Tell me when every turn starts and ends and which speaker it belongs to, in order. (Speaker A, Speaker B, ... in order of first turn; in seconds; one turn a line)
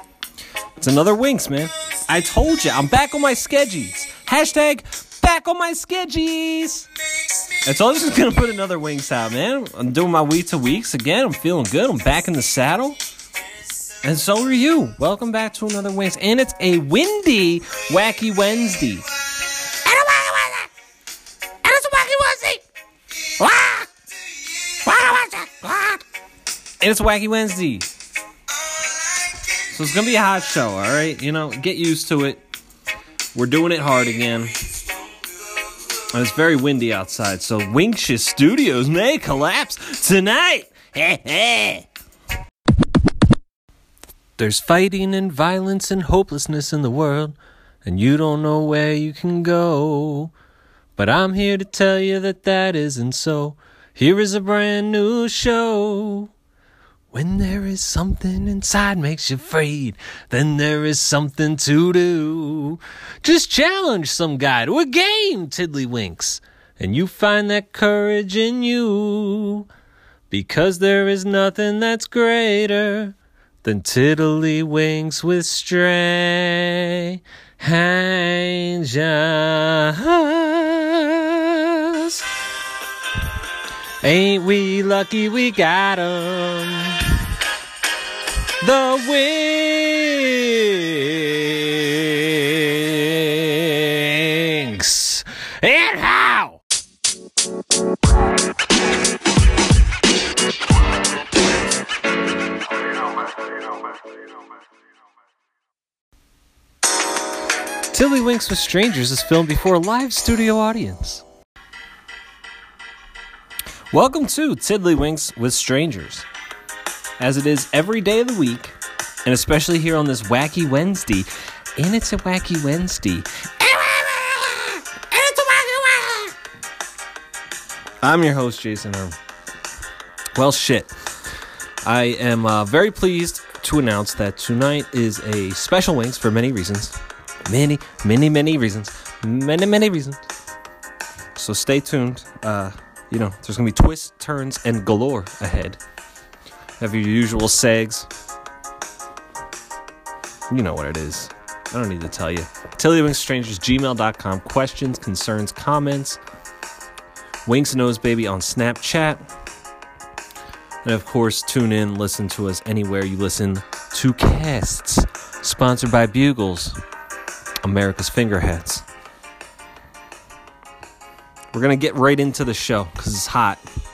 Speaker A: 0.8-6.9
Speaker A: 7.6-13.0
Speaker A: 14.0-19.1
Speaker A: 19.9-20.5
Speaker A: 21.6-22.6
Speaker A: 23.4-23.8
Speaker A: 24.9-25.7
Speaker A: 26.8-27.9
Speaker A: 29.7-32.4
Speaker A: 33.3-34.6
Speaker A: 36.1-41.9
Speaker A: 44.4-50.3
Speaker A: 51.0-56.3
Speaker A: 57.1-69.7
Speaker A: 70.3-82.2
Speaker A: 84.0-87.0
Speaker A: 88.6-96.6
Speaker A: 107.9-111.2
Speaker A: 113.9-116.2
Speaker A: 117.2-126.3
Speaker A: 128.0-129.2
Speaker A: 130.3-130.9
Speaker A: 131.8-140.2
Speaker A: 141.3-145.8
Speaker A: 146.8-148.1
Speaker A: 150.5-156.2
Speaker A: 157.4-159.2
Speaker A: 160.8-166.8
Speaker A: 167.6-168.8
Speaker A: 171.5-173.6